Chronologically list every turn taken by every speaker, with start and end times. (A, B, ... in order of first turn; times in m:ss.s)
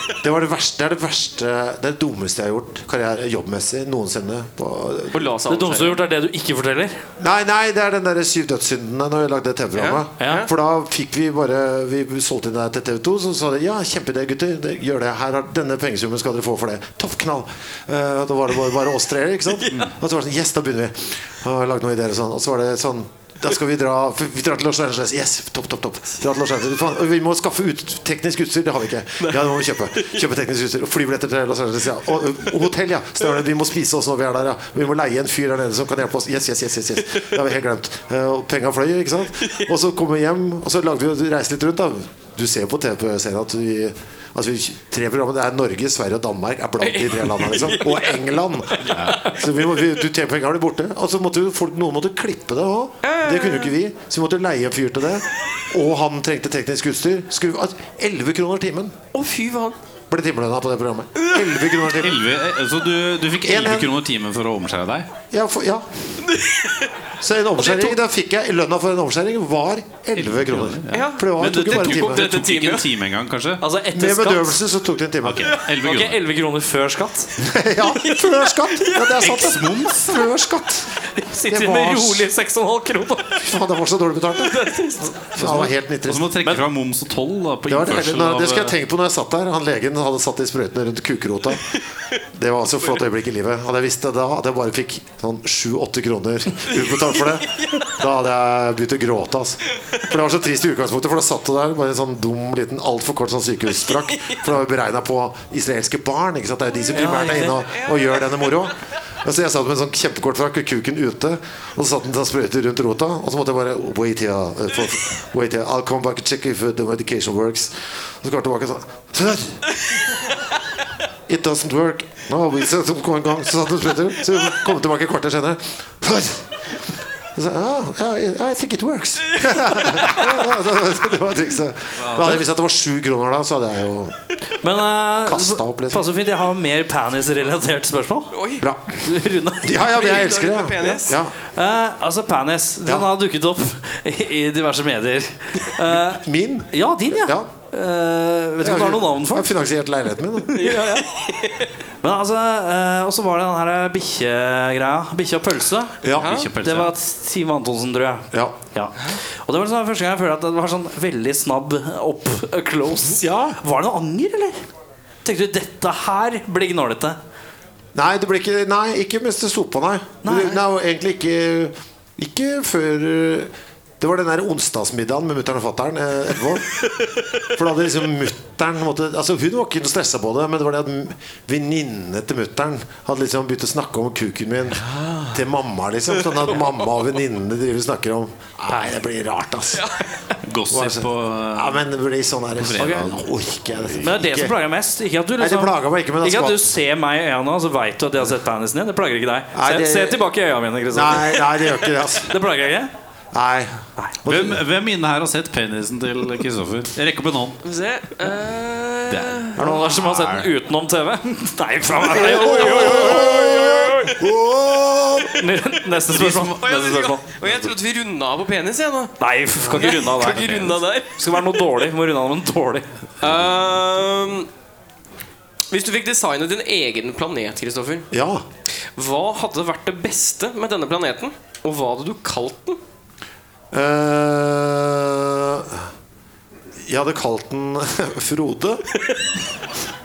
0:00.2-0:05.3 A
0:05.1-0:06.0 B
0:05.5-0:07.0 C
0:07.2-0:59.0 A
0:09.8-0:10.5 B
0:10.2-0:10.5 C
0:19.6-0:19.8 B
0:29.2-0:30.2 B
0:46.8-0:49.6 B
0:48.9-0:49.2 D
0:53.0-0:53.7 B
0:59.1-0:59.8 B
1:00.1-1:02.2 A
1:01.2-1:01.8 B
1:02.0-1:05.1 D
1:03.4-1:03.9 A
1:05.3-1:06.2 A
1:06.2-1:06.9 B
1:07.2-1:12.3 A
1:07.6-1:08.0 B
1:10.2-1:13.6 D
1:10.9-1:12.9 B
1:13.6-1:14.6 C
1:13.9-1:15.6 A
1:15.2-1:16.2 D
1:15.8-1:17.3 C
1:17.4-1:20.9 A
1:17.9-1:19.1 B
1:19.2-1:20.3 D
1:21.0-1:23.4 C
1:21.5-1:22.3 A
1:23.3-1:26.5 A
1:24.4-1:25.1 B
1:24.6-1:25.7 C
1:25.4-1:28.8 D
1:27.7-1:31.6 A
1:32.3-1:59.6 A
1:36.7-1:37.9 B
1:46.9-1:48.5 B
1:46.9-1:47.6 C
2:01.3-2:06.5 A
2:07.4-2:14.2 A
2:12.0-2:12.4 D
2:14.6-2:18.3 C
2:15.2-2:16.1 A
2:18.3-2:18.7 B
2:18.6-2:21.3 A
2:19.0-2:19.8 C
2:19.8-2:21.2 B
2:21.5-2:29.5 C
2:25.8-2:27.5 A
2:28.6-2:30.7 A
2:30.5-2:31.2 C
2:30.6-2:31.7 B
2:32.0-2:36.0 C
2:36.0-2:36.3 A
2:36.1-2:36.9 D
2:36.2-2:36.5 B
2:36.6-2:44.6 C
2:43.2-2:43.6 A
2:45.2-2:47.2 C
2:48.0-2:56.9 A
2:50.2-2:50.6 C
2:57.4-3:10.0 A
3:04.8-3:05.4 B
3:09.7-3:10.1 B
3:10.4-3:11.8 D
3:10.7-3:14.6 A
3:12.6-3:14.1 D
3:14.0-3:22.9 C
3:15.4-3:16.7 A
3:19.5-3:20.3 A
3:20.9-3:22.4 A
3:23.3-3:24.6 A
3:24.2-3:27.6 D
3:27.6-3:29.6 B
3:29.1-3:30.5 D
3:29.6-3:29.9 A
3:29.6-3:33.7 C
3:32.1-3:34.1 B
3:32.1-3:35.5 A
3:35.3-3:37.3 C
3:36.2-3:36.5 D
3:36.3-3:39.2 B
3:39.2-3:42.9 C
3:39.7-3:41.5 B
3:43.2-3:44.5 B
3:45.7-3:48.1 B
3:48.1-3:48.4 A
3:48.9-3:52.8 B
3:53.7-3:55.9 A
3:56.8-3:58.9 A